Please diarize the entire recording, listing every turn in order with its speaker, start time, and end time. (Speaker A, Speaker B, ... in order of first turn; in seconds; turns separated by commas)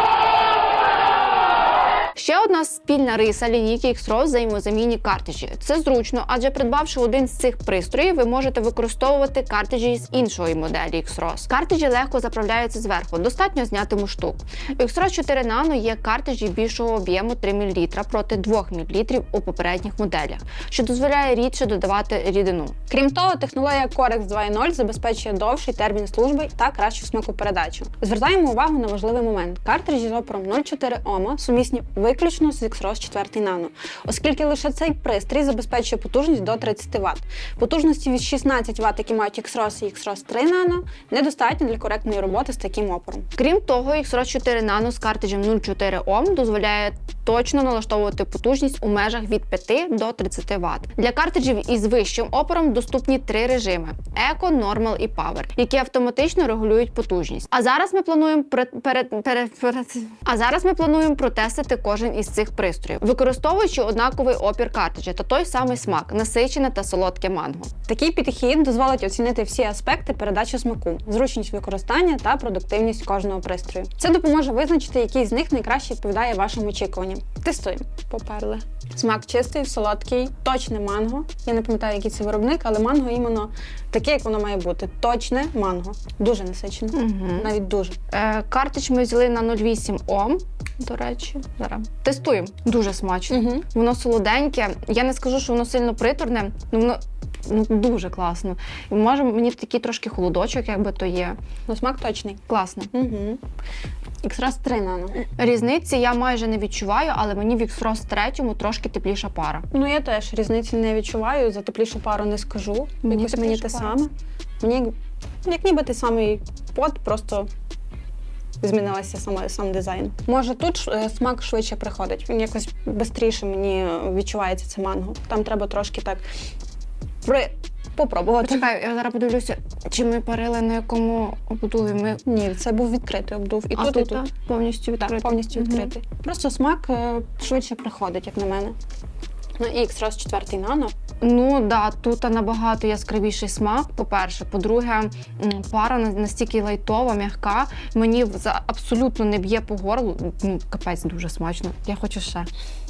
Speaker A: 2.1-22.8, Speaker B: 22.9-43.3, Speaker A: 43.4-67.7, Speaker B: 67.9-88.0, Speaker A: 86.9-87.5, Speaker A: 88.1-101.4, Speaker B: 93.3-93.6, Speaker B: 101.7-103.4, Speaker A: 102.5-102.9, Speaker B: 104.2-105.2, Speaker A: 105.3-109.7, Speaker B: 109.7-117.5, Speaker A: 113.0-114.0, Speaker B: 118.6-126.2, Speaker B: 127.2-128.6, Speaker A: 128.4-132.2, Speaker B: 132.2-134.2, Speaker A: 133.7-135.9, Speaker B: 135.2-138.8, Speaker B: 139.6-140.9, Speaker A: 141.2-152.5